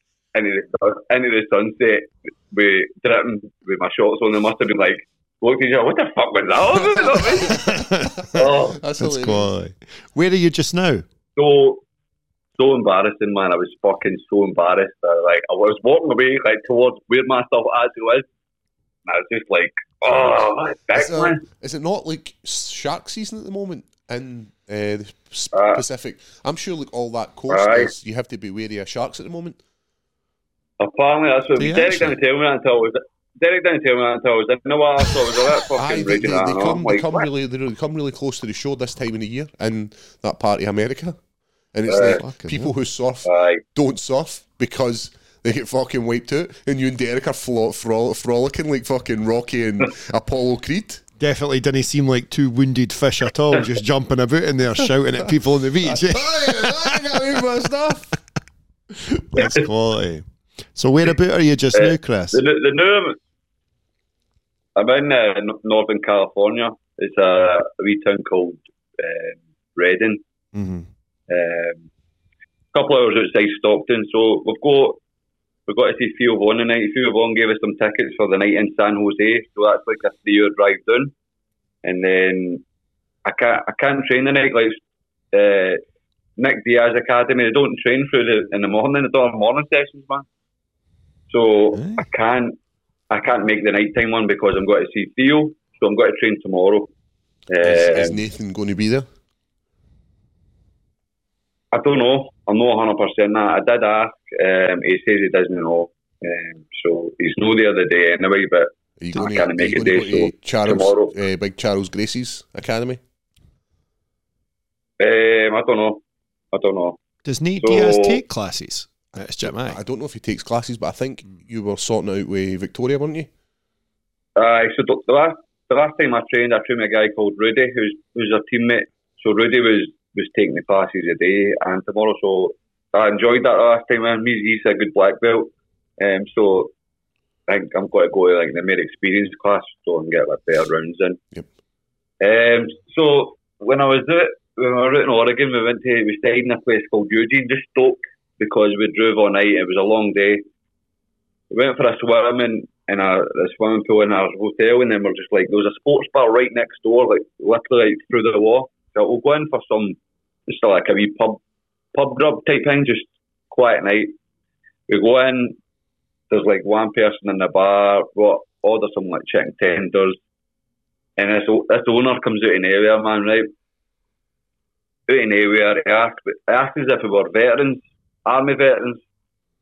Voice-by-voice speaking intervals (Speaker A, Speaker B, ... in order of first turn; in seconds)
Speaker A: 0.3-7.6, 8.3-8.8, 11.3-11.8, 12.6-18.2, 19.1-21.4, 25.5-25.8, 27.5-27.9, 30.8-37.3, 41.9-42.2, 43.2-43.6, 59.4-59.6, 61.7-63.2, 64.8-70.2, 71.3-71.8, 72.7-75.0, 75.7-81.1, 81.8-82.6, 83.2-84.8, 85.3-85.8, 86.4-90.2, 91.3-92.6, 93.1-96.9, 97.5-98.2, 101.7-111.1, 115.0-117.0, 117.6-118.2, 124.3-136.7, 137.5-141.2, 142.2-150.4, 151.5-161.4, 161.9-164.1, 164.9-165.6, 166.3-170.2, 171.2-173.5, 175.1-179.0
Speaker B: 6.7-9.5, 20.9-29.6, 35.8-41.2, 41.7-51.0, 55.9-58.1, 97.6-99.1, 109.0-113.0, 119.4-123.3
Speaker C: 7.6-8.2, 9.0-11.0, 31.6-32.1, 42.2-42.6, 51.2-57.0, 59.1-62.4, 70.5-70.9, 91.8-92.0, 117.2-119.8